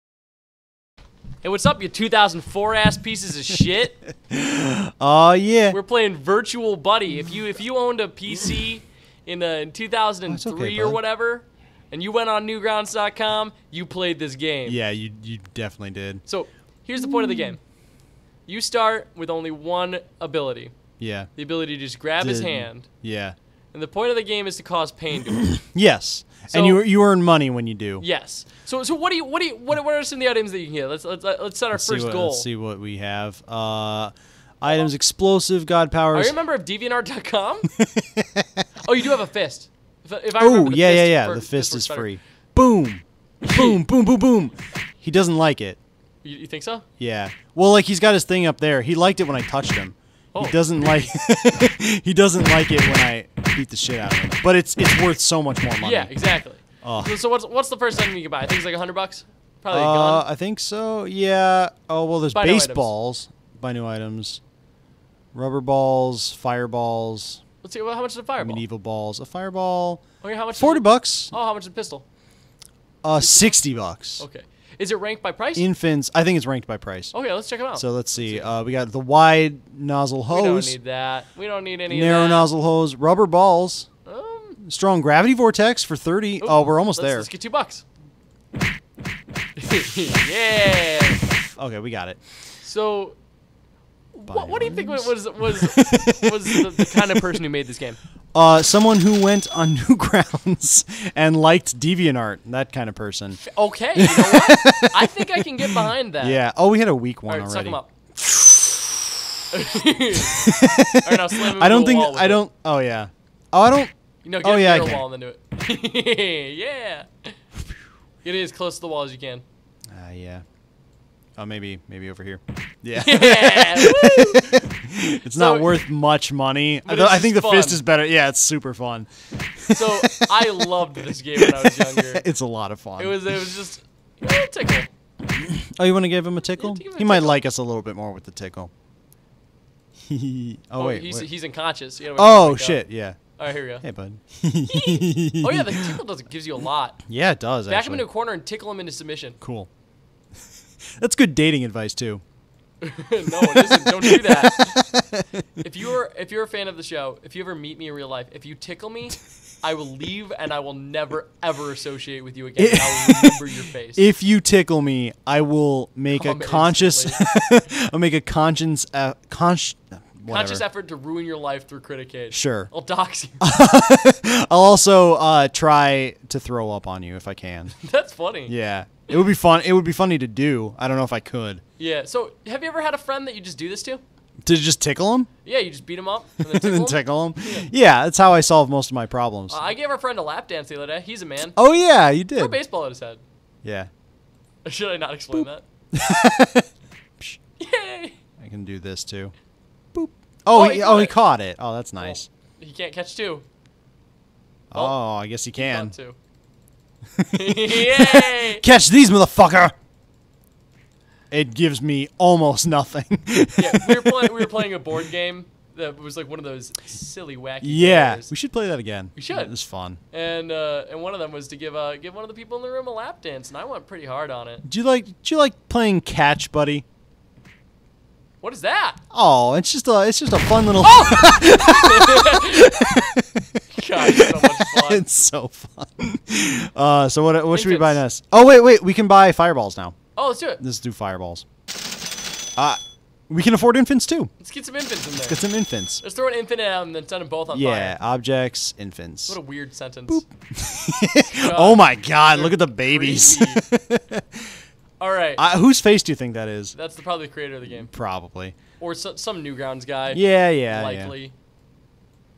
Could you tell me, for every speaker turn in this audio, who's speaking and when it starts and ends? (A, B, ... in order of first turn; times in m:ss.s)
0:01.4-0:04.0 A
0:04.3-0:05.8 B
0:05.7-0:14.8 A
0:10.3-0:11.0 B
0:14.7-0:16.2 B
0:16.3-0:17.6 A
0:18.5-0:20.7 A
0:21.0-0:21.3 B
0:21.4-0:22.9 A
0:22.2-0:23.4 B
0:23.7-0:25.5 A
0:25.6-0:28.0 B
0:26.5-0:26.8 A
0:28.0-0:32.5 A
0:31.7-0:36.4 B
0:36.1-0:37.7 A
0:37.8-0:38.6 B
0:38.8-0:42.1 A
0:40.4-0:45.8 B
0:43.4-0:43.8 A
0:46.2-0:46.9 A
0:47.0-0:56.1 B
0:50.3-0:50.6 A
0:55.8-1:00.2 A
0:56.8-0:57.1 B
0:59.7-1:04.4 B
1:02.3-1:02.9 A
1:05.3-1:07.4 B
1:07.6-1:08.6 A
1:08.4-1:10.0 B
1:10.2-1:12.0 A
1:10.6-1:11.3 B
1:13.0-1:14.2 B
1:13.2-1:13.6 A
1:14.2-1:15.7 A
1:15.6-1:17.2 B
1:17.1-1:18.5 A
1:17.7-1:20.8 B
1:20.3-1:22.5 A
1:21.9-1:23.9 B
1:24.1-1:24.6 A
1:24.6-1:27.3 B
1:26.4-1:27.8 A
1:29.6-1:31.2 A
1:31.6-1:32.2 B
1:32.6-1:33.2 A
1:34.1-1:38.0 A
1:34.3-1:37.3 B
1:38.3-1:43.4 B
1:43.4-1:46.4 A
1:44.0-1:49.0 B
1:47.3-1:47.9 A
1:49.5-1:52.4 A
1:50.2-1:55.0 B
1:54.2-1:57.4 A
1:58.2-1:59.4 A
1:59.9-2:00.4 B
2:01.4-2:13.5 B
2:03.0-2:04.7 A
2:05.3-2:05.8 A
2:06.8-2:07.8 A
2:09.7-2:12.2 A
2:13.0-2:14.9 A
2:15.4-2:18.7 B
2:16.6-2:17.4 A
2:20.0-2:21.3 B
2:20.8-2:22.8 A
2:22.2-2:23.2 B
2:23.4-2:23.8 A
2:23.8-2:26.0 B
2:24.7-2:27.0 A
2:27.0-2:28.0 B
2:27.7-2:29.4 A
2:29.4-2:29.7 B
2:31.0-2:32.2 B
2:32.8-2:34.8 A
2:33.3-2:35.3 B
2:35.6-2:44.1 A
2:42.6-2:43.4 B
2:44.0-2:50.6 B
2:46.1-2:47.2 A
2:50.3-2:53.4 A
2:52.3-2:52.7 B
2:53.4-2:57.8 B
2:57.8-2:58.5 A
2:58.5-3:01.6 B
3:01.8-3:04.0 A
3:04.4-3:05.3 B
3:05.4-3:07.7 A
3:06.4-3:09.6 B
3:09.5-3:11.6 A
3:11.5-3:12.6 B
3:12.4-3:13.2 A
3:13.6-3:13.9 B
3:14.6-3:15.6 A
3:15.3-3:16.7 B
3:17.6-3:18.2 A
3:18.4-3:19.3 B
3:19.9-3:22.3 B
3:20.5-3:21.2 A
3:22.0-3:23.4 A
3:24.7-3:25.9 B
3:25.6-3:26.2 A
3:27.2-3:29.7 B
3:27.3-3:28.6 A
3:31.3-3:34.7 B
3:33.6-3:38.3 A
3:37.6-3:40.0 B
3:39.2-3:39.5 A
3:40.1-3:44.6 A
3:44.6-3:46.8 B
3:48.4-3:49.0 A
3:49.1-4:00.0 B
3:50.8-3:52.8 A
3:53.7-3:55.1 A
3:57.5-3:58.0 A
4:00.2-4:00.6 A
4:00.6-4:01.4 B
4:02.6-4:04.3 B
4:04.4-4:05.4 A
4:05.1-4:06.0 B
4:06.0-4:08.0 A
4:07.5-4:09.4 B
4:09.3-4:10.2 A
4:10.1-4:14.5 B
4:11.3-4:13.6 A
4:15.0-4:15.4 A
4:15.4-4:16.8 B
4:16.8-4:17.9 A
4:17.7-4:18.6 B
4:18.8-4:21.3 A
4:20.1-4:21.1 B